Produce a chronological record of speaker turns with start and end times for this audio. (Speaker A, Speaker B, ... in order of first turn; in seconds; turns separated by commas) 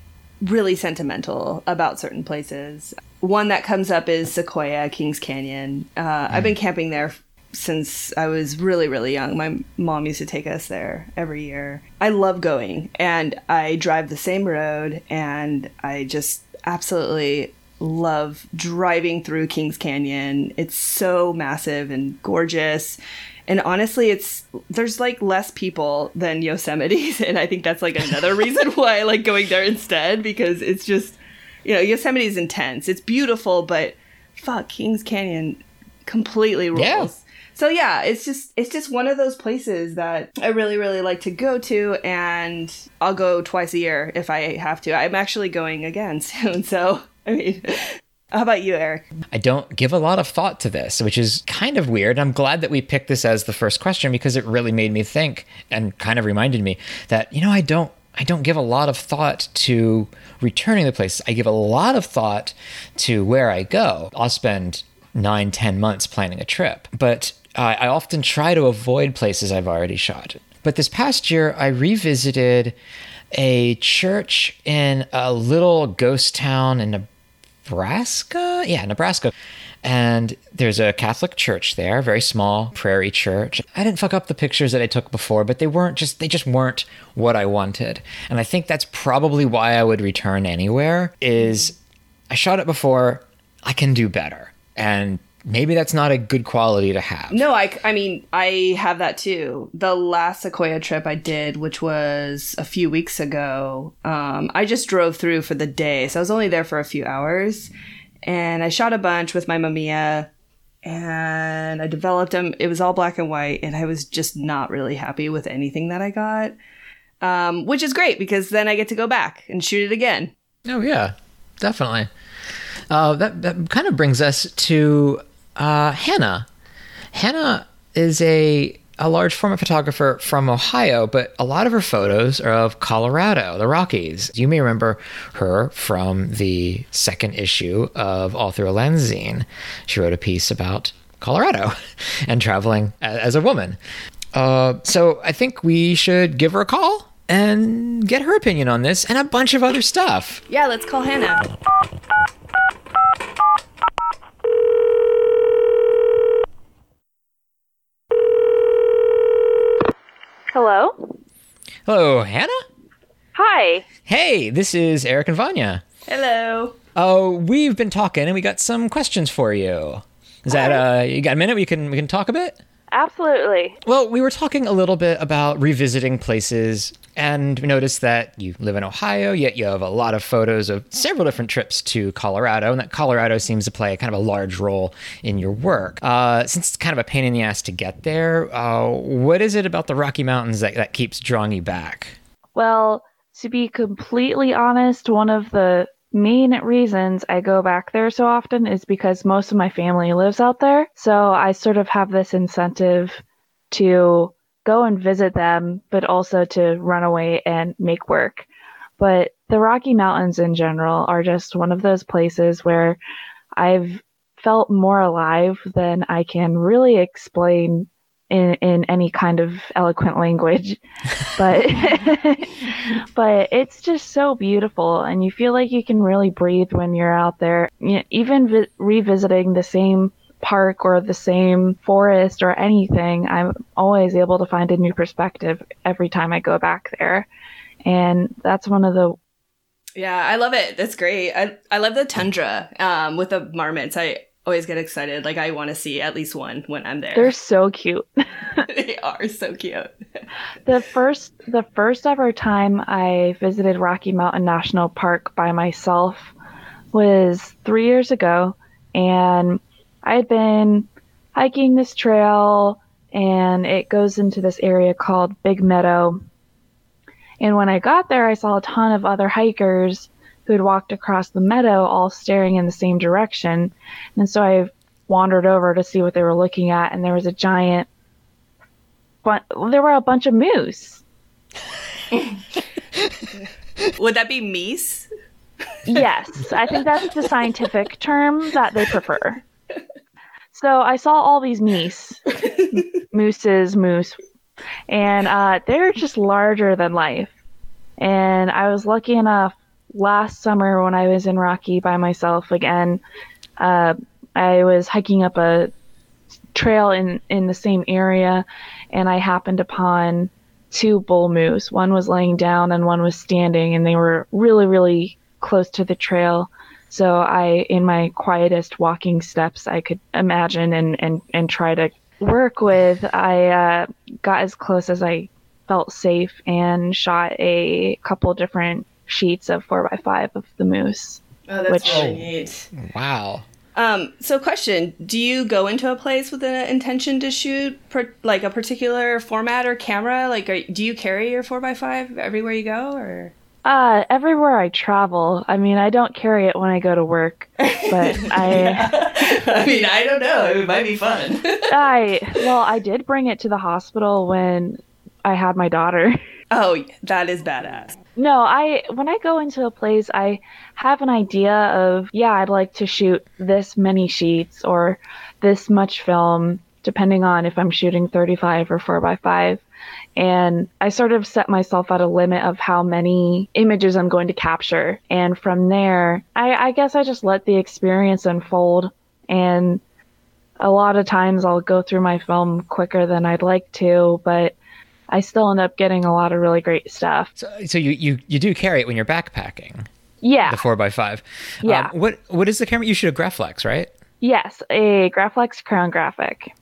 Speaker A: 0.4-49.0, Speaker B: 6.3-6.5, Speaker B: 36.7-37.1, Speaker B: 49.3-72.8, Speaker B: 73.3-77.1, Speaker B: 77.6-91.8, Speaker B: 92.3-97.5, Speaker A: 97.3-107.7, Speaker A: 108.2-110.3, Speaker A: 110.8-116.5, Speaker A: 117.2-120.3, Speaker B: 120.6-122.1, Speaker B: 122.9-126.5, Speaker B: 127.1-143.8, Speaker B: 144.3-150.4, Speaker A: 150.5-151.5, Speaker C: 160.5-161.0, Speaker B: 161.8-162.6, Speaker C: 163.3-163.8, Speaker B: 164.1-165.8, Speaker A: 166.1-166.8, Speaker B: 166.9-172.6, Speaker C: 170.5-170.8, Speaker C: 172.9-173.8, Speaker B: 173.8-192.2, Speaker C: 192.6-208.5, Speaker C: 209.0-213.0, Speaker C: 213.6-222.6, Speaker C: 223.1-237.3, Speaker C: 237.8-239.2, Speaker A: 240.0-247.3, Speaker C: 247.1-248.6, Speaker A: 248.7-250.2, Speaker C: 250.6-256.3, Speaker C: 256.9-266.2, Speaker C: 267.4-277.9, Speaker C: 279.2-281.0, Speaker A: 282.1-282.4, Speaker A: 283.9-285.1, Speaker C: 285.9-289.4, Speaker C: 290.5-292.2, Speaker C: 293.1-294.1, Speaker C: 294.9-297.3, Speaker C: 298.0-303.0, Speaker C: 303.6-305.7, Speaker C: 306.5-332.1, Speaker A: 331.5-332.7, Speaker B: 331.8-333.4, Speaker A: 333.8-343.3, Speaker C: 343.6-348.9, Speaker A: 347.6-351.7, Speaker C: 351.7-356.2, Speaker A: 356.5-358.0, Speaker C: 358.1-369.6, Speaker C: 370.2-379.8, Speaker C: 380.6-384.5, Speaker C: 385.1-387.3, Speaker B: 387.4-389.9, Speaker C: 390.2-390.6, Speaker B: 390.5-393.9, Speaker C: 391.6-391.9, Speaker C: 394.2-396.5